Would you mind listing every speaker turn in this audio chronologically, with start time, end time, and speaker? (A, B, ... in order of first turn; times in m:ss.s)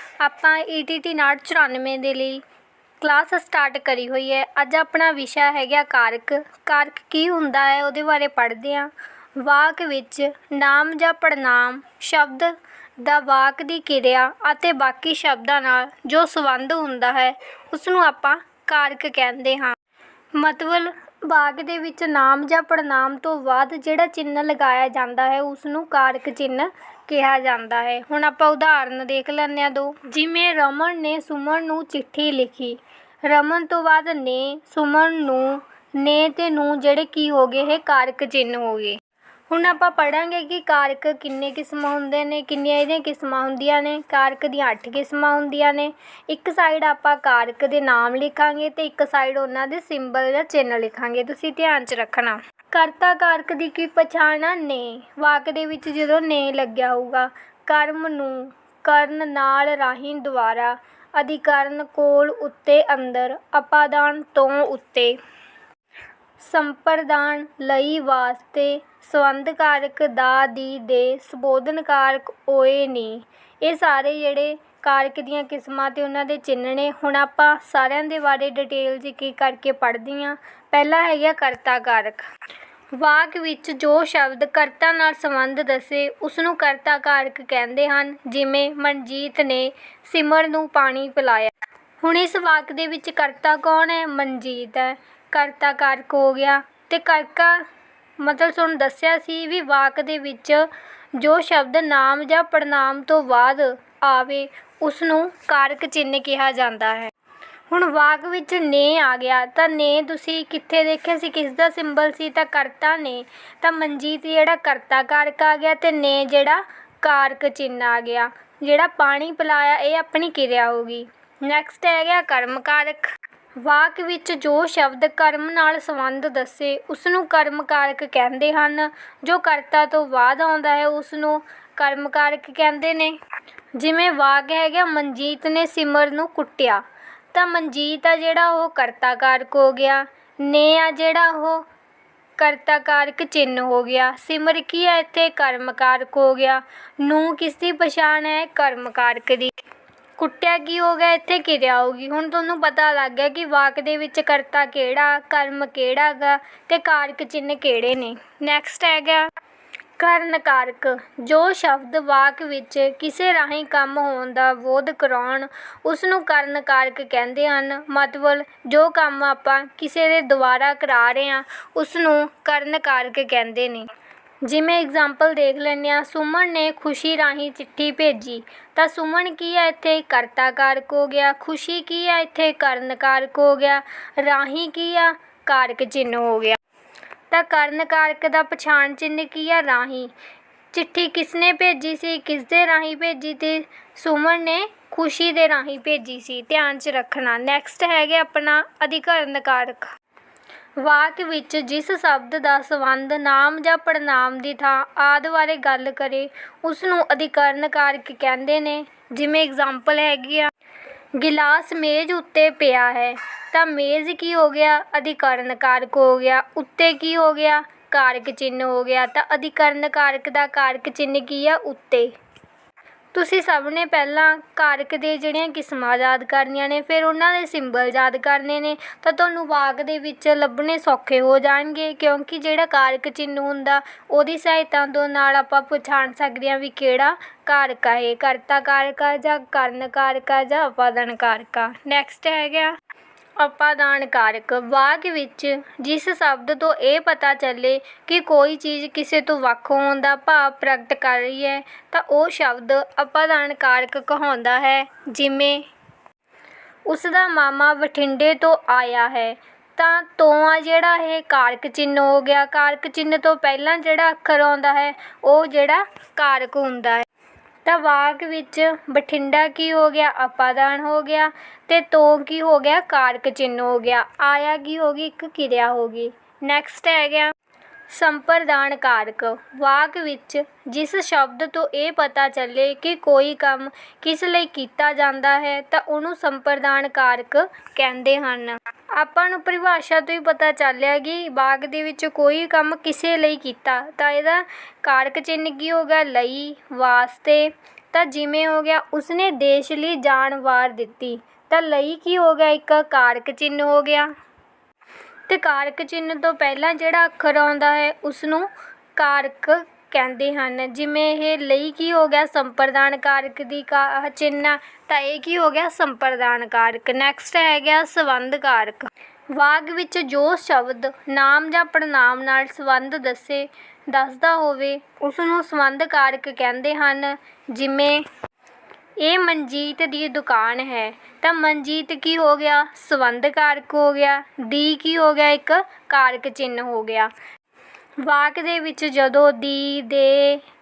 0:00.2-0:02.4 A
0:03.0-0:19.8 A
0:20.3-0:39.0 A
0:39.5-1:05.2 A
1:06.4-1:22.3 A
1:22.9-1:37.6 A
1:38.2-1:47.1 A
1:47.7-2:13.2 A
2:13.8-2:21.7 A
2:22.4-2:29.5 A
2:30.2-2:39.3 A
2:40.0-2:53.9 A
2:54.4-3:06.6 A
3:07.3-3:10.1 A
3:10.7-3:19.9 A
3:20.8-3:30.5 A
3:31.2-3:42.1 A
3:43.1-4:02.8 A
4:03.4-4:15.7 A
4:16.9-4:27.1 A
4:27.6-4:37.3 A
4:37.9-5:04.1 A
5:05.3-5:28.0 A
5:29.0-5:37.1 A
5:38.0-5:40.4 A